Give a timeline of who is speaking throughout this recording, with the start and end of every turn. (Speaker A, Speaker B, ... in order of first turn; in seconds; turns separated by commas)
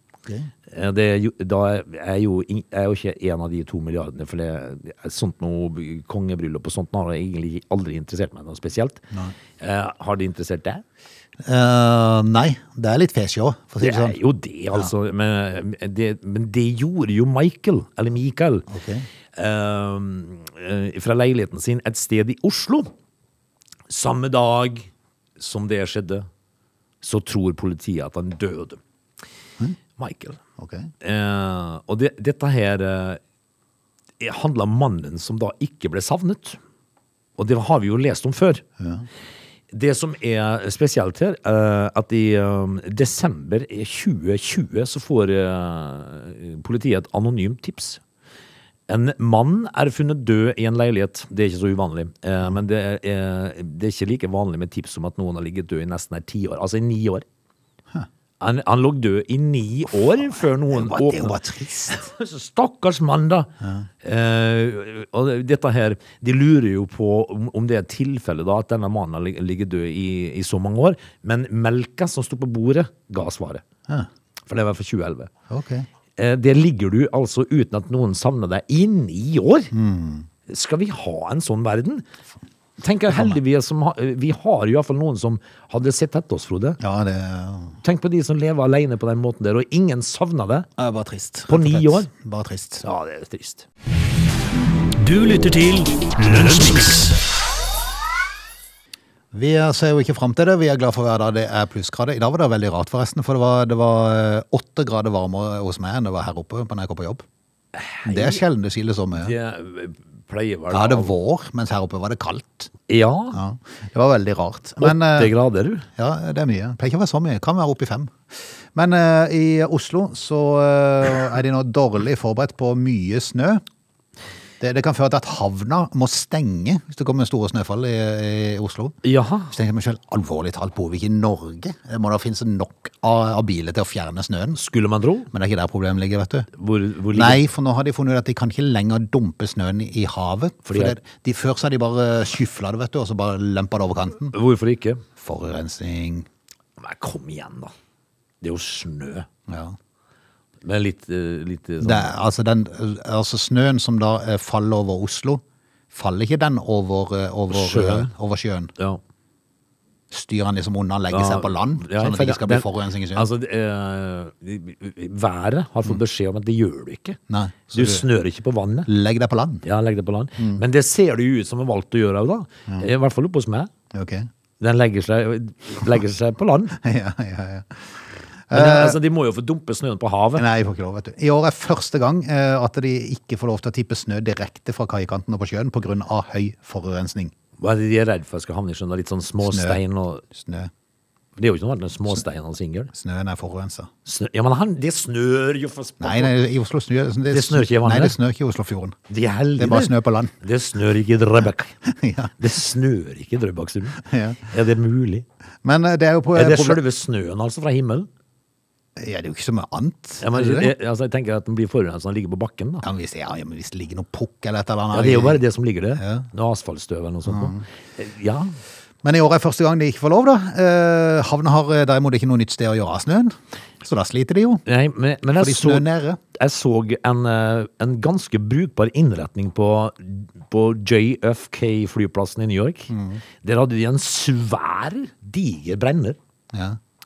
Speaker A: 0.2-0.5, Speaker B: 0.7-9.0, Speaker B: 9.6-10.8, Speaker A: 11.4-14.2, Speaker B: 13.8-18.7, Speaker A: 18.7-19.1, Speaker B: 19.3-22.9, Speaker B: 23.9-26.3, Speaker B: 27.0-28.8, Speaker B: 30.0-30.4, Speaker A: 30.6-30.9, Speaker B: 31.0-33.2, Speaker B: 34.2-36.6, Speaker B: 37.4-38.6, Speaker A: 38.8-39.0, Speaker B: 39.7-48.0, Speaker B: 48.9-57.2, Speaker B: 58.4-63.5, Speaker A: 60.7-62.0, Speaker B: 64.0-73.6, Speaker B: 74.5-75.3, Speaker A: 75.5-75.9, Speaker B: 76.2-79.7, Speaker A: 79.7-80.3, Speaker B: 80.5-82.0, Speaker B: 82.8-86.8, Speaker A: 83.1-83.4, Speaker A: 86.8-87.8, Speaker B: 87.8-90.7, Speaker A: 90.8-92.8, Speaker B: 91.5-92.1, Speaker B: 92.8-93.7, Speaker C: 95.0-97.2, Speaker A: 99.3-107.2, Speaker B: 107.7-108.4, Speaker A: 108.0-109.3, Speaker B: 109.2-111.1, Speaker A: 110.7-112.7, Speaker B: 112.9-113.4, Speaker A: 113.3-115.3, Speaker B: 114.8-115.8, Speaker A: 116.0-123.6, Speaker A: 124.6-128.9, Speaker B: 129.0-129.5, Speaker A: 129.5-134.6, Speaker B: 134.5-135.3, Speaker A: 135.3-136.5, Speaker B: 136.5-137.4, Speaker A: 137.1-144.3, Speaker B: 140.7-141.0, Speaker B: 144.3-145.0, Speaker A: 145.2-146.3, Speaker B: 146.8-147.7, Speaker B: 148.4-149.3, Speaker A: 149.5-149.8, Speaker B: 150.6-152.1, Speaker A: 151.8-158.7, Speaker B: 157.5-158.1, Speaker A: 160.1-163.3, Speaker B: 161.1-167.2, Speaker A: 167.3-168.0, Speaker B: 167.7-168.9, Speaker A: 168.9-169.6, Speaker B: 169.6-173.7, Speaker A: 173.9-174.3, Speaker B: 174.6-176.8, Speaker A: 176.8-179.0, Speaker B: 178.5-180.4, Speaker A: 180.3-187.3, Speaker B: 187.6-190.2, Speaker A: 189.4-190.7, Speaker B: 191.4-192.9, Speaker A: 192.9-193.9, Speaker B: 194.1-196.3, Speaker A: 196.0-198.9, Speaker B: 197.3-198.2, Speaker B: 199.1-201.8, Speaker A: 199.6-200.3, Speaker A: 201.8-202.4, Speaker B: 202.4-205.2, Speaker A: 204.0-204.4, Speaker A: 205.6-206.8, Speaker B: 206.3-208.1, Speaker A: 209.0-210.7, Speaker B: 210.2-212.8, Speaker A: 212.8-215.4, Speaker B: 214.9-218.6, Speaker A: 216.0-216.3, Speaker A: 217.3-217.6, Speaker A: 219.0-224.6, Speaker B: 224.7-236.2, Speaker A: 225.3-226.2, Speaker A: 232.9-233.2, Speaker A: 236.5-236.8